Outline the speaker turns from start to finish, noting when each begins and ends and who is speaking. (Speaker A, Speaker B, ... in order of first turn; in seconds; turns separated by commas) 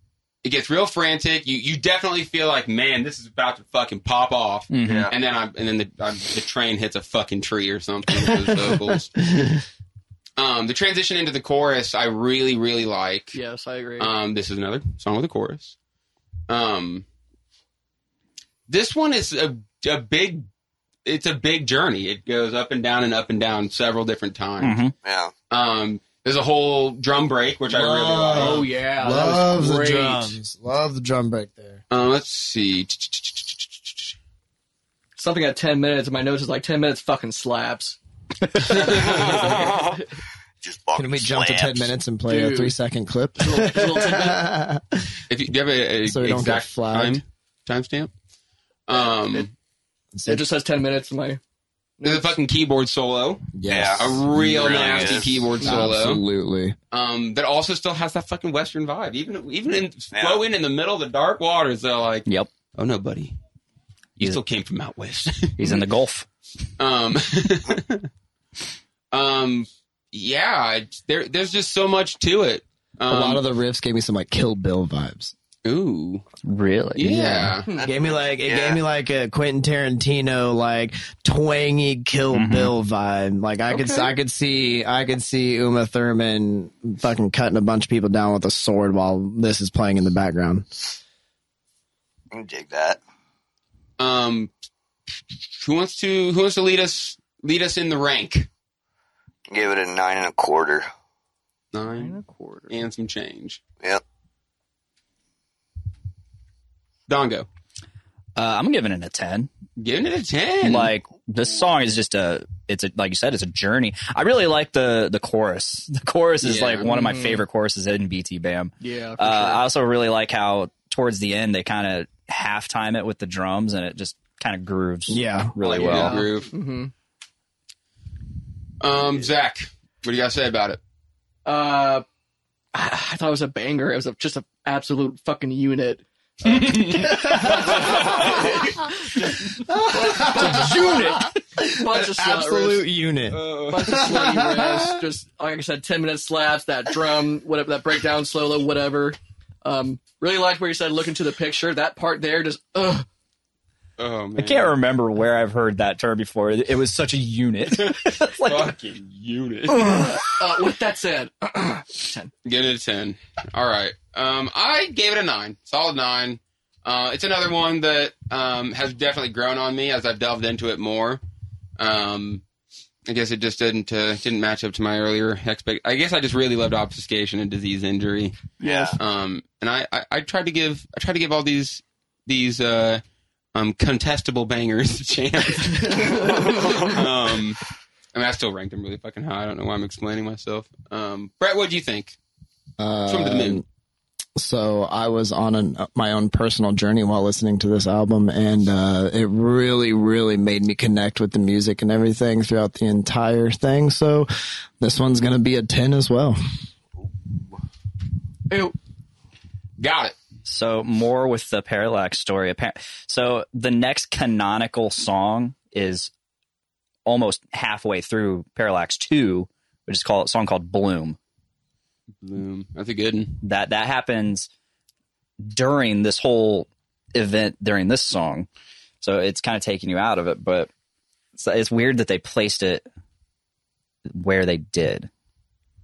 Speaker A: 0.4-9.2, Speaker B: 4.7-5.1, Speaker C: 4.8-5.1, Speaker D: 8.2-9.6, Speaker A: 10.4-13.4, Speaker E: 13.3-14.1, Speaker A: 14.0-15.8, Speaker A: 16.5-17.1, Speaker A: 18.7-20.5, Speaker A: 21.1-24.8, Speaker B: 24.6-24.9, Speaker C: 25.0-25.3, Speaker A: 25.5-28.7, Speaker D: 27.7-31.8, Speaker E: 28.3-30.4, Speaker A: 31.9-34.0, Speaker E: 35.2-38.0, Speaker E: 38.5-40.1, Speaker A: 38.6-39.6, Speaker C: 39.0-40.0, Speaker C: 40.6-42.0, Speaker D: 41.0-45.1, Speaker E: 42.3-42.8, Speaker E: 43.4-44.4, Speaker A: 45.3-48.1, Speaker D: 46.1-47.2, Speaker A: 48.9-49.5, Speaker D: 50.1-50.5, Speaker E: 50.2-51.4, Speaker E: 52.0-52.3, Speaker A: 52.0-56.2, Speaker D: 53.5-56.8, Speaker C: 53.7-55.3, Speaker A: 56.9-63.3, Speaker C: 60.1-60.4, Speaker A: 64.2-65.8, Speaker B: 65.6-66.3, Speaker A: 66.8-68.1, Speaker A: 69.1-73.5, Speaker D: 73.1-75.3, Speaker A: 75.7-76.2, Speaker B: 76.4-77.5, Speaker A: 77.0-77.7, Speaker C: 77.8-78.8, Speaker D: 77.8-90.9, Speaker B: 82.3-82.7, Speaker E: 83.7-84.1, Speaker C: 92.3-93.0, Speaker A: 94.0-94.5, Speaker A: 95.5-98.5, Speaker C: 99.5-100.9, Speaker A: 101.7-102.2, Speaker E: 101.8-102.7, Speaker A: 102.7-103.6, Speaker A: 107.1-107.5, Speaker B: 108.4-109.5, Speaker A: 109.8-110.9, Speaker B: 110.6-126.2, Speaker A: 116.4-116.9, Speaker E: 116.8-117.4, Speaker E: 118.8-119.7, Speaker D: 125.1-125.5, Speaker E: 125.6-126.9, Speaker A: 125.7-126.5, Speaker A: 128.8-130.8, Speaker E: 131.4-132.0, Speaker E: 132.7-142.9, Speaker A: 136.4-138.6, Speaker D: 137.1-137.7, Speaker D: 139.6-145.0, Speaker A: 143.3-144.2, Speaker E: 143.7-153.1, Speaker A: 154.0-154.7, Speaker B: 154.4-158.7, Speaker A: 157.7-160.0, Speaker E: 159.8-162.3, Speaker A: 162.4-171.2, Speaker A: 171.8-172.4, Speaker A: 173.1-183.0, Speaker E: 178.6-179.0, Speaker C: 178.6-179.0, Speaker A: 183.5-187.6, Speaker E: 185.8-186.8, Speaker A: 188.1-192.2, Speaker D: 192.8-193.6, Speaker A: 193.1-193.6, Speaker D: 194.4-204.3, Speaker D: 204.8-206.4, Speaker E: 208.5-208.8, Speaker A: 209.8-210.2, Speaker B: 210.4-216.1, Speaker B: 217.1-221.2, Speaker A: 222.2-223.4, Speaker B: 223.4-224.5, Speaker B: 225.5-228.5, Speaker B: 229.0-230.7, Speaker B: 231.4-232.8, Speaker B: 234.1-235.1